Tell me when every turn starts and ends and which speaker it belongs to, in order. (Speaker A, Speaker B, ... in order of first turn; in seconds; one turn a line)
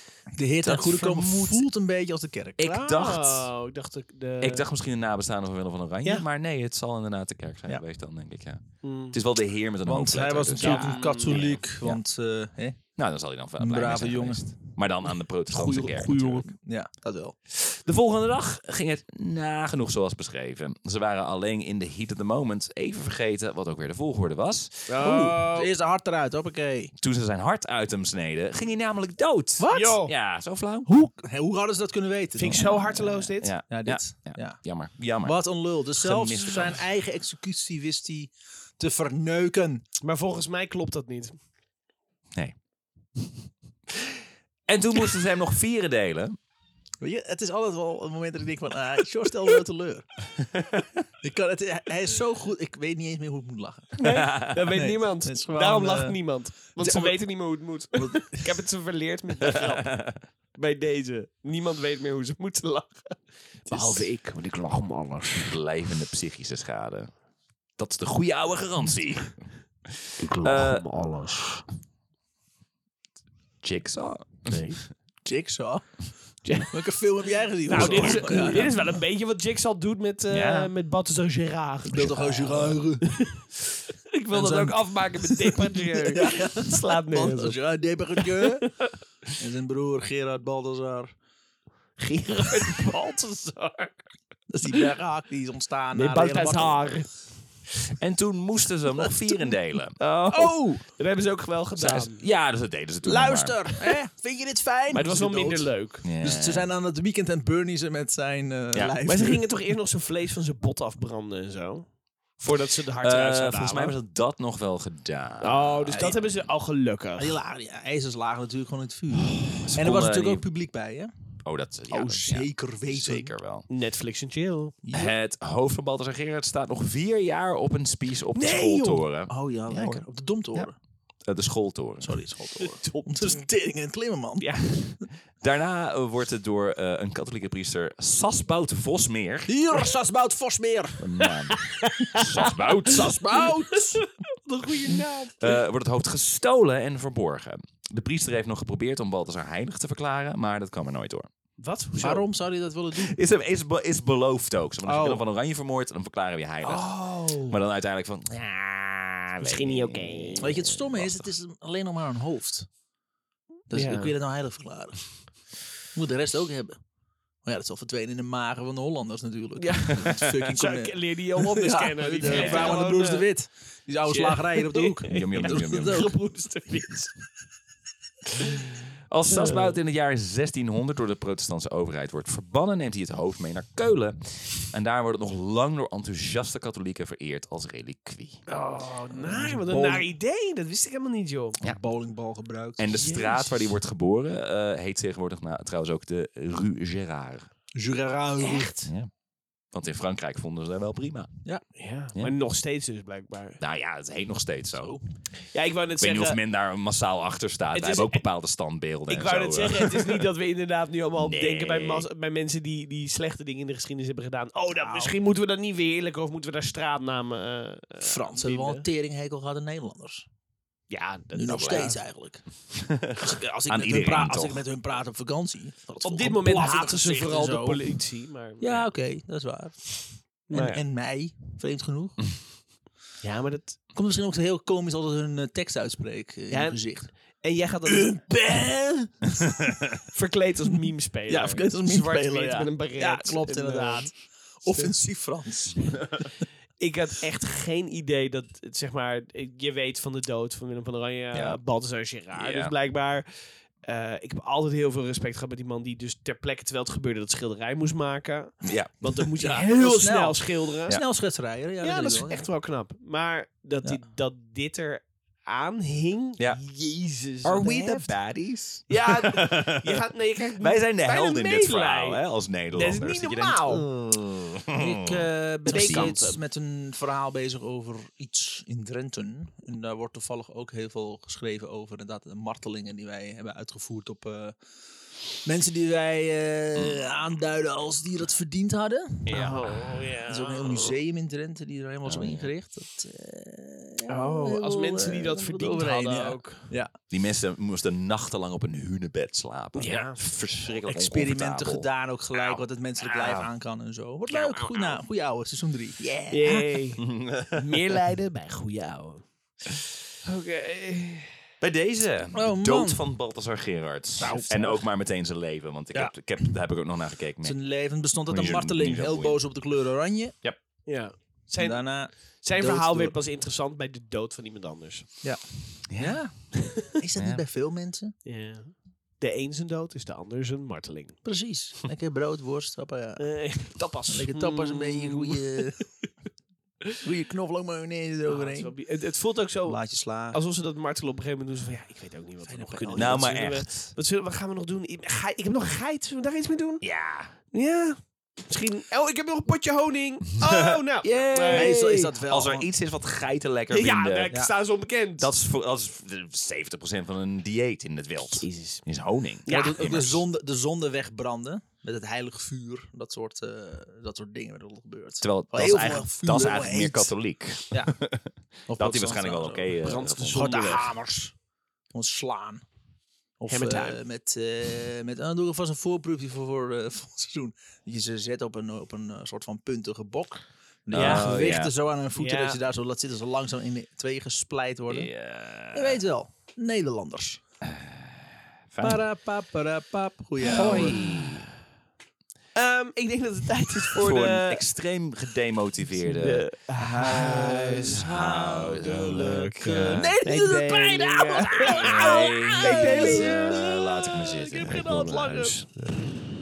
Speaker A: 0.3-2.8
Speaker B: 0.6-1.6
Speaker B: 2.6-3.5
Speaker C: 2.6-4.7
Speaker B: 4.4-12.0
Speaker C: 8.8-9.2
Speaker A: 9.8-12.8
Speaker C: 10.6-11.6
Speaker B: 12.9-16.5
Speaker A: 13.6-14.8
Speaker A: 15.5-17.3
Speaker B: 17.5-25.0
Speaker C: 24.9-25.7
Speaker A: 25.0-26.9
Speaker B: 27.0-30.9
Speaker A: 29.6-30.0
Speaker C: 29.7-30.1
Speaker A: 30.9-32.9
Speaker C: 32.4-33.5
Speaker B: 32.5-35.4
Speaker A: 33.7-34.7
Speaker A: 35.2-39.8
Speaker B: 36.0-36.8
Speaker C: 40.0-41.4
Speaker B: 43.9-46.4
Speaker A: 47.0-50.0
Speaker B: 50.5-50.9
Speaker A: 51.2-54.0
Speaker C: 54.0-59.9
Speaker B: 54.0-54.7
Speaker A: 54.7-56.2
Speaker A: 56.7-57.2
Speaker A: 57.9-58.5
Speaker B: 59.5-60.2
Speaker C: 60.5-65.6
Speaker B: 63.7-64.1
Speaker B: 65.5-67.1
Speaker B: 67.8-70.9
Speaker C: 70.2-71.6
Speaker B: 73.6-74.6
Speaker C: 74.5-74.8
Speaker A: 75.2-75.9
Speaker C: 76.4-76.8
Speaker A: 76.7-78.7
Speaker C: 77.6-83.4
Speaker B: 77.8-78.6
Speaker B: 80.3-80.7
Speaker A: 81.9-83.2
Speaker C: 84.1-87.6
Speaker A: 84.3-88.7
Speaker C: 88.2-88.9
Speaker A: 89.3-91.1
Speaker C: 92.0-94.0
Speaker A: 94.5-97.0
Speaker C: 95.9-97.1
Speaker B: 98.0-100.0
Speaker C: 100.0-102.2
Speaker A: 100.3-100.8
Speaker B: 101.8-103.7
Speaker A: 103.0-109.5
Speaker C: 104.9-106.0
Speaker B: 106.0-106.7
Speaker C: 109.0-113.9
Speaker B: 113.0-116.3
Speaker C: 115.4-117.4
Speaker A: 117.2-121.1
Speaker B: 119.2-120.4
Speaker B: 121.4-123.7
Speaker A: 121.9-123.3
Speaker C: 123.7-124.7
Speaker A: 124.8-125.1
Speaker B: 124.9-130.7
Speaker C: 128.3-129.1
Speaker A: 129.3-130.7
Speaker B: 131.2-132.2
Speaker A: 132.0-134.5
Speaker C: 132.6-133.4
Speaker C: 134.4-135.0
Speaker B: 135.4-139.5
Speaker A: 139.5-141.0
Speaker B: 141.0-143.2
Speaker C: 141.2-142.5
Speaker A: 142.8-144.0
Speaker C: 143.7-145.6
Speaker B: 145.4-151.3
Speaker C: 151.6-152.3
Speaker A: 152.0-153.2
Speaker B: 152.9-161.3
Speaker A: 154.8-155.2
Speaker A: 156.7-157.5
Speaker C: 159.4-160.5
Speaker A: 160.4-162.7
Speaker A: 163.7-165.2
Speaker C: 163.7-164.1
Speaker A: 165.9-166.8
Speaker A: 167.4-176.1
Speaker C: 169.6-173.3
Speaker B: 172.2-172.8
Speaker C: 174.1-177.1
Speaker B: 175.1-176.1
Speaker B: 179.1-188.4
Speaker C: 179.3-179.7
Speaker C: 188.5-191.6
Speaker A: 189.2-189.8
Speaker B: 189.7-190.0
Speaker A: 191.6-192.8
Speaker B: 192.8-197.5
Speaker C: 192.9-193.7
Speaker A: 197.7-198.7
Speaker C: 198.4-198.9
Speaker B: 198.8-199.1
Speaker B: 199.7-201.3
Speaker C: 201.8-203.6
Speaker B: 203.6-205.0
Speaker A: 204.7-205.0
Speaker C: 205.5-206.4
Speaker B: 206.0-210.3
Speaker C: 207.7-208.2
Speaker C: 209.1-218.8
Speaker B: 211.2-212.1
Speaker A: 214.8-215.1
Speaker A: 218.0-220.3
Speaker C: 220.9-222.0
Speaker A: 221.3-222.4
Speaker B: 221.6-221.9
Speaker B: 222.8-224.7
Speaker A: 223.1-227.9
Speaker C: 226.0-228.9
Speaker A: 228.6-232.2
Speaker C: 230.5-230.8
Speaker C: 233.2-233.8
Speaker A: 233.9-237.1
Speaker C: 236.5-238.3
Speaker A: 237.8-239.7
Speaker C: 240.1-244.1
Speaker A: 241.3-246.2
Speaker C: 246.8-261.0
Speaker B: 251.3-251.6
Speaker B: 252.3-252.7
Speaker B: 258.6-258.9
Speaker A: 259.4-262.5
Speaker C: 261.8-268.1
Speaker B: 267.4-270.0
Speaker C: 268.9-272.2
Speaker B: 270.6-276.1
Speaker C: 272.7-273.9
Speaker A: 274.7-284.6
Speaker C: 275.7-276.4
Speaker A: 285.4-289.5
Speaker B: 286.8-287.1
Speaker C: 289.2-290.9
Speaker B: 289.3-289.6
Speaker A: 290.3-296.9
Speaker B: 292.0-292.5
Speaker C: 294.1-296.7
Speaker B: 297.1-301.9
Speaker C: 299.7-300.2
Speaker A: 300.6-306.8
Speaker B: 302.4-303.5
Speaker B: 304.3-305.0
Speaker C: 306.3-309.3
Speaker B: 307.0-307.9
Speaker C: 310.2-311.3
Speaker B: 311.6-317.6
Speaker A: 312.3-313.0
Speaker C: 314.2-314.9
Speaker A: 317.4-320.4
Speaker B: 318.3-319.4
Speaker C: 320.8-325.1
Speaker A: 321.6-323.2
Speaker A: 325.2-328.1
Speaker B: 325.9-326.2
Speaker B: 327.1-327.4
Speaker C: 328.2-331.2
Speaker A: 331.2-335.9
Speaker C: 333.2-335.7
Speaker A: 337.0-338.8
Speaker C: 338.3-351.8
Speaker A: 339.6-340.4
Speaker A: 342.5-343.5
Speaker B: 342.9-343.9
Speaker B: 346.8-347.3
Speaker B: 350.4-354.4
Speaker A: 351.5-352.7
Speaker C: 353.7-355.3
Speaker B: 355.2-360.2
Speaker C: 358.4-358.8
Speaker C: 359.4-359.9
Speaker A: 359.5-367.1
Speaker B: 365.2-370.8
Speaker A: 367.7-367.9
Speaker A: 368.7-369.8
Speaker C: 369.8-370.9
Speaker A: 370.3-371.3
Speaker A: 371.9-372.6
Speaker A: 373.4-385.1
Speaker C: 373.5-374.0
Speaker B: 380.9-381.7
Speaker C: 380.9-381.6
Speaker C: 382.1-382.6
Speaker B: 384.9-386.0
Speaker A: 385.7-387.4
Speaker B: 387.6-389.0
Speaker A: 388.8-391.0
Speaker B: 390.4-391.5
Speaker C: 390.6-390.9
Speaker C: 392.5-394.6
Speaker B: 393.9-396.5
Speaker C: 396.0-398.1
Speaker A: 396.8-404.9
Speaker B: 397.0-400.2
Speaker C: 399.7-403.6
Speaker B: 401.2-406.0
Speaker C: 404.5-405.6